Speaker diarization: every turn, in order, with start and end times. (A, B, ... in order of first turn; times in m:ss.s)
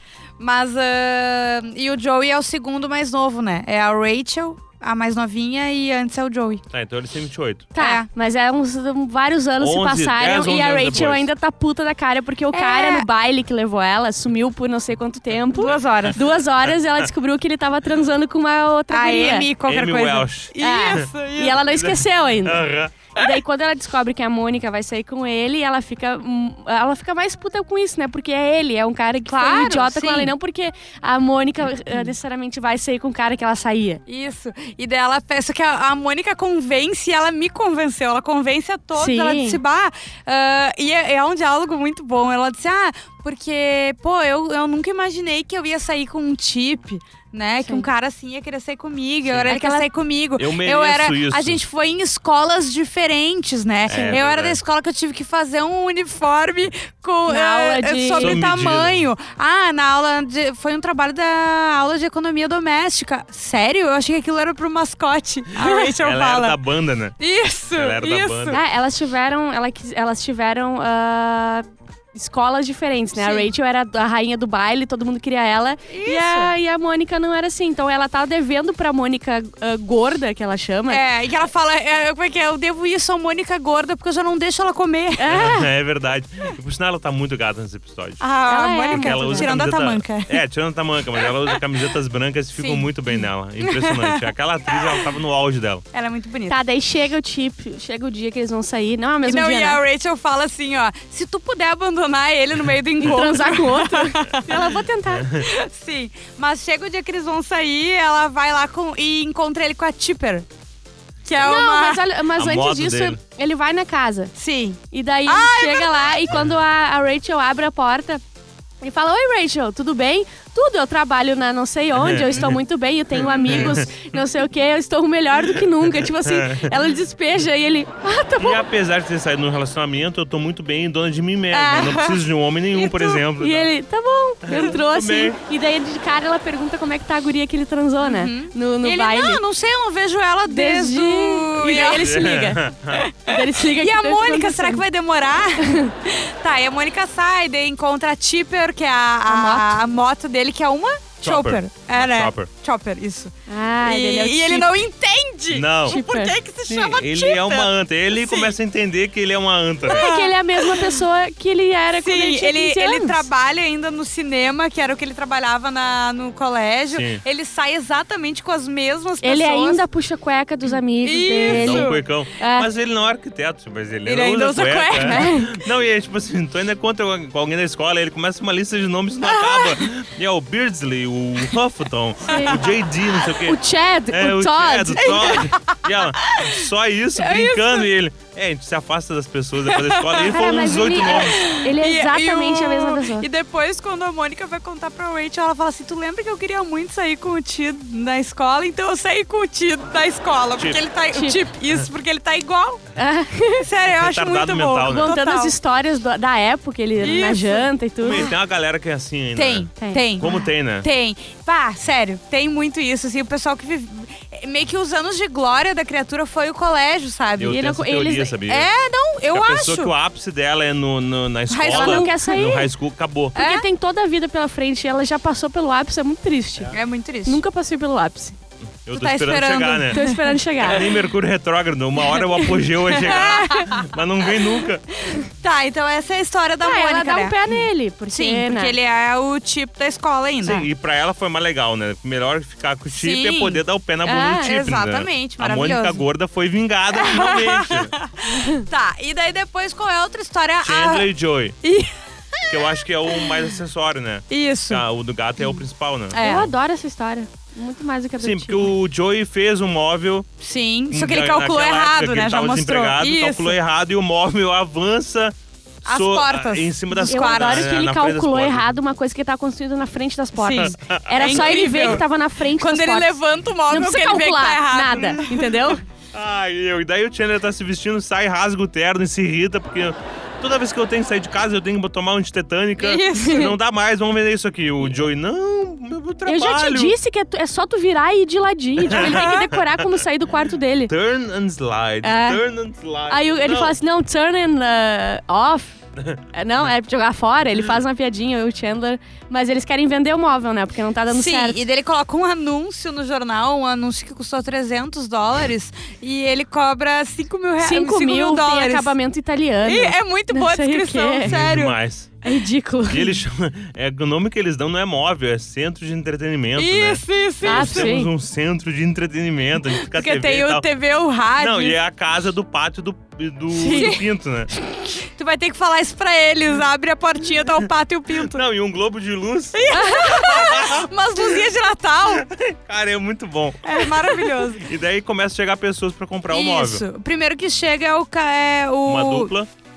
0:00.4-0:06.6 A
0:06.7-0:07.7 B
0:07.7-0:19.5 C
0:07.8-0:08.1 A
0:09.6-0:11.3 B
0:12.5-0:13.1 A
0:15.5-0:16.2 A
0:15.8-0:17.0 B
0:18.9-0:21.6 A
0:19.6-0:21.1 B
0:20.6-0:34.0 C
0:21.7-0:22.9 B
0:29.2-0:30.3 A
0:34.1-1:06.6 A
0:39.0-0:39.6 C
0:49.2-0:49.5 B
0:49.5-0:49.9 C
0:50.4-0:51.6 B
0:53.9-0:54.6 B
0:53.9-0:54.2 C
0:57.2-0:58.4 C
0:58.2-0:59.1 B
1:05.6-1:05.9 C
1:06.0-1:07.2 B
1:07.2-1:08.6 A
1:07.8-1:08.6 B
1:08.5-1:21.0 C
1:13.2-1:13.5 A
1:15.9-1:16.5 A
1:20.9-1:25.3 A
1:25.2-1:25.7 C
1:25.3-1:28.2 B
1:28.2-1:30.4 A
1:28.4-1:29.5 C
1:28.9-1:35.8 B
1:31.2-1:31.6 A
1:32.6-1:35.1 A
1:35.9-1:36.6 A
1:36.5-1:39.8 C
1:39.2-1:44.8 A
1:43.0-1:45.2 C
1:45.1-1:45.5 B
1:45.4-1:50.4 A
1:51.2-1:52.0 A
1:51.4-1:54.3 C
1:52.3-1:53.2 B
1:54.4-1:56.3 A
1:54.9-1:58.2 C
1:58.8-2:08.6 C
2:01.9-2:02.6 B
2:03.2-2:03.9 B
2:03.3-2:03.7 A
2:05.5-2:06.8 B
2:08.4-2:13.7 B
2:11.5-2:13.2 A
2:13.4-2:19.4 C
2:14.4-2:15.4 B
2:18.0-2:22.3 A
2:20.5-2:22.7 C
2:22.0-2:23.1 B
2:22.9-2:38.6 A
2:23.2-2:24.8 C
2:25.6-2:25.9 C
2:29.3-2:29.7 C
2:31.2-2:32.5 B
2:33.5-2:34.8 C
2:35.5-2:36.0 B
2:35.9-2:36.3 C
2:36.7-2:40.1 B
2:39.9-2:43.3 C
2:39.9-2:41.0 A
2:42.0-2:49.8 A
2:46.9-2:47.2 B
2:49.2-2:52.7 C
2:51.0-2:52.0 A
2:51.4-3:03.6 B
2:54.0-2:55.4 A
2:55.0-2:55.5 C
2:59.2-2:59.8 A
3:02.3-3:02.6 C
3:02.3-3:02.6 A
3:03.4-3:05.5 C
3:04.1-3:11.4 B
3:05.0-3:06.6 A
3:07.1-3:07.9 A
3:09.7-3:22.8 A
3:10.2-3:13.2 C
3:21.1-3:21.4 C
3:23.0-3:23.6 C
3:23.6-3:25.5 A
3:23.9-3:25.2 B
3:24.8-3:28.3 C
3:27.0-3:28.3 A
3:28.0-3:30.9 B
3:29.4-3:37.6 A
3:29.8-3:30.0 C
3:37.4-3:38.7 B
3:37.4-3:38.3 C
3:38.5-3:39.9 A
3:39.3-3:43.4 B
3:41.5-3:42.4 A
3:41.7-3:42.7 C
3:43.3-3:48.4 C
3:43.4-3:43.6 A
3:46.7-3:47.4 A
3:48.8-3:50.0 B
3:48.9-3:50.8 A
3:49.9-3:50.9 C
3:50.6-3:54.8 B
3:52.2-3:53.7 C
3:52.9-3:53.9 A
3:55.0-3:57.4 A
3:56.6-3:58.7 C
3:58.1-4:00.6 A
4:00.4-4:07.9 B
4:02.9-4:03.6 A
4:04.0-4:04.5 C
4:04.4-4:06.0 A
4:06.9-4:11.1 A
4:08.3-4:08.6 C
4:10.6-4:11.6 B
4:11.6-4:13.5 A
4:12.5-4:16.2 B
4:14.3-4:14.8 A
4:16.1-4:16.5 A
4:16.1-4:18.7 C
4:18.2-4:20.3 B
4:20.4-4:23.6 A
4:20.9-4:28.7 B
4:25.8-4:27.7 A
4:27.0-4:35.8 C
4:30.4-4:35.8 A
4:30.5-4:31.9 B
4:36.1-4:47.0 B
4:42.8-4:43.6 A
4:43.2-4:43.4 C
4:46.2-4:50.9 C
4:48.8-4:49.9 B
4:48.9-4:49.4 A
4:50.9-4:53.8 B
4:52.0-4:52.4 C
4:53.1-4:55.8 C
4:56.3-5:01.6 C
5:01.1-5:08.9 A
5:07.6-5:11.4 C
5:09.6-5:11.8 A
5:11.2-5:12.2 B
5:12.2-5:13.2 C
5:12.9-5:20.6 B
5:16.6-5:17.9 A
5:17.4-5:18.1 C
5:19.7-5:21.8 A
5:21.4-5:24.5 B
5:23.6-5:24.0 A
5:23.6-5:23.9 C
5:25.1-5:28.4 A
5:28.2-5:30.9 B
5:29.5-5:32.2 A
5:29.8-5:30.1 C
5:32.1-5:36.8 B
5:33.6-5:34.6 A
5:36.3-5:39.3 A
5:38.8-5:39.5 B